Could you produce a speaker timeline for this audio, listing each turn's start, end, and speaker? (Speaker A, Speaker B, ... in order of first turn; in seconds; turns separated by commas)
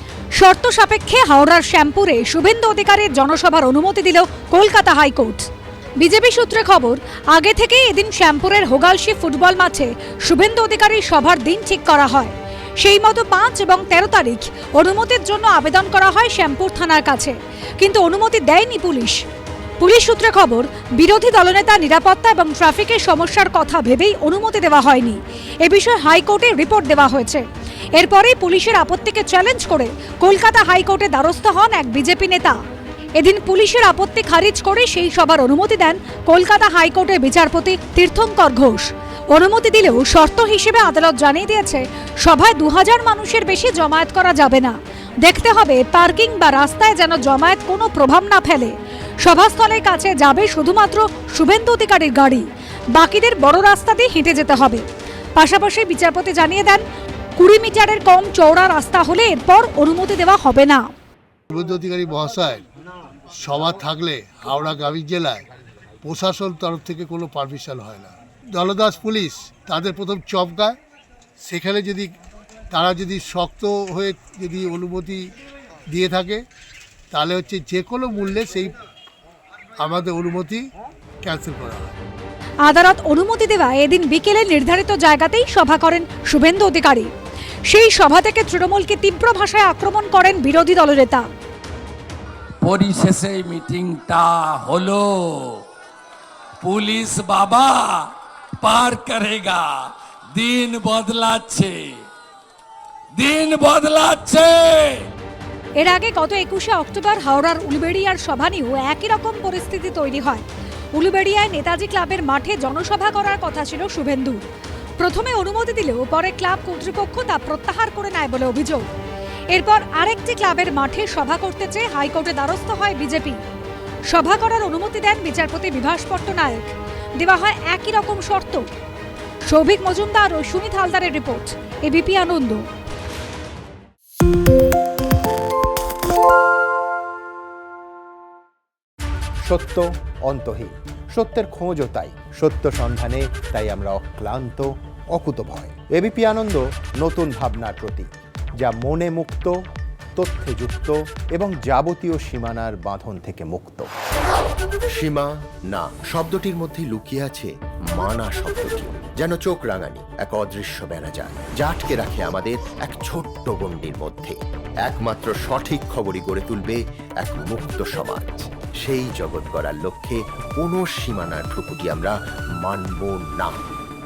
Speaker A: 0.4-5.5, Speaker A: 6.0-19.2, Speaker A: 19.8-27.4, Speaker A: 28.0-32.6, Speaker A: 33.2-54.8, Speaker A: 55.4-56.8, Speaker A: 57.4-60.9, Speaker B: 61.5-62.6, Speaker B: 63.3-65.5, Speaker B: 66.0-70.8, Speaker B: 71.4-72.2, Speaker B: 72.7-75.3, Speaker B: 75.9-76.4, Speaker B: 77.1-78.8, Speaker B: 79.8-80.7, Speaker B: 81.2-82.0, Speaker A: 82.6-87.1, Speaker A: 87.7-91.3, Speaker C: 92.6-95.6, Speaker C: 96.6-98.1, Speaker C: 98.6-102.0, Speaker C: 103.2-105.1, Speaker A: 105.8-110.4, Speaker A: 111.0-114.5, Speaker A: 115.0-118.9, Speaker A: 119.5-123.4, Speaker A: 124.1-128.7, Speaker A: 129.5-132.7, Speaker D: 139.4-149.6, Speaker D: 150.2-153.9, Speaker E: 154.9-173.6